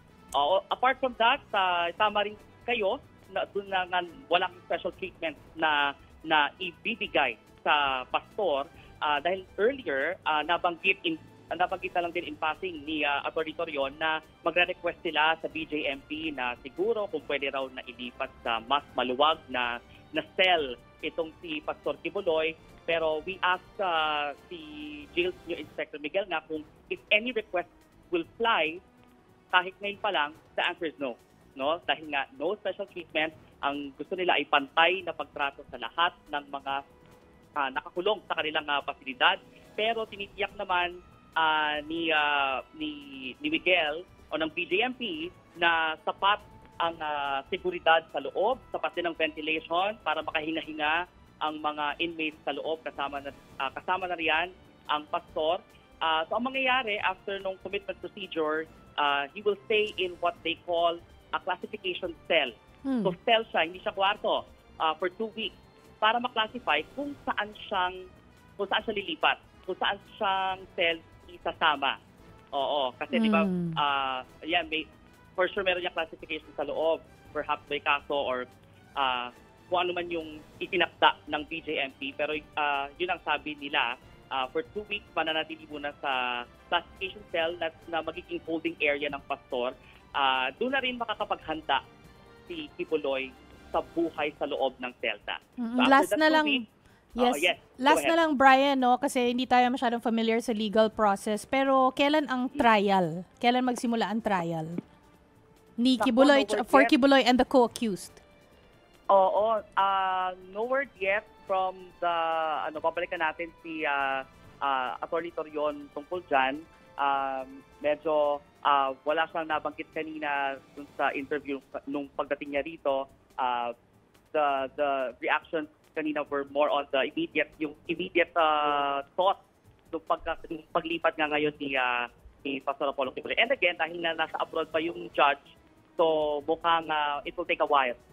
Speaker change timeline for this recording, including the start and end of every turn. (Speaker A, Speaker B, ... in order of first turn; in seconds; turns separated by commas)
Speaker A: 0.3-28.8, Speaker A: 29.5-36.8, Speaker A: 37.6-62.5, Speaker B: 62.8-63.1, Speaker A: 63.0-68.0, Speaker A: 68.6-72.0, Speaker A: 72.5-74.8, Speaker B: 73.1-73.8, Speaker A: 75.4-78.5, Speaker A: 79.0-91.8, Speaker A: 92.5-96.6, Speaker B: 95.6-96.6, Speaker A: 97.2-98.1, Speaker B: 97.2-104.8, Speaker B: 105.8-108.2, Speaker A: 106.0-106.9, Speaker A: 109.1-123.7, Speaker A: 124.3-129.4, Speaker A: 129.9-138.0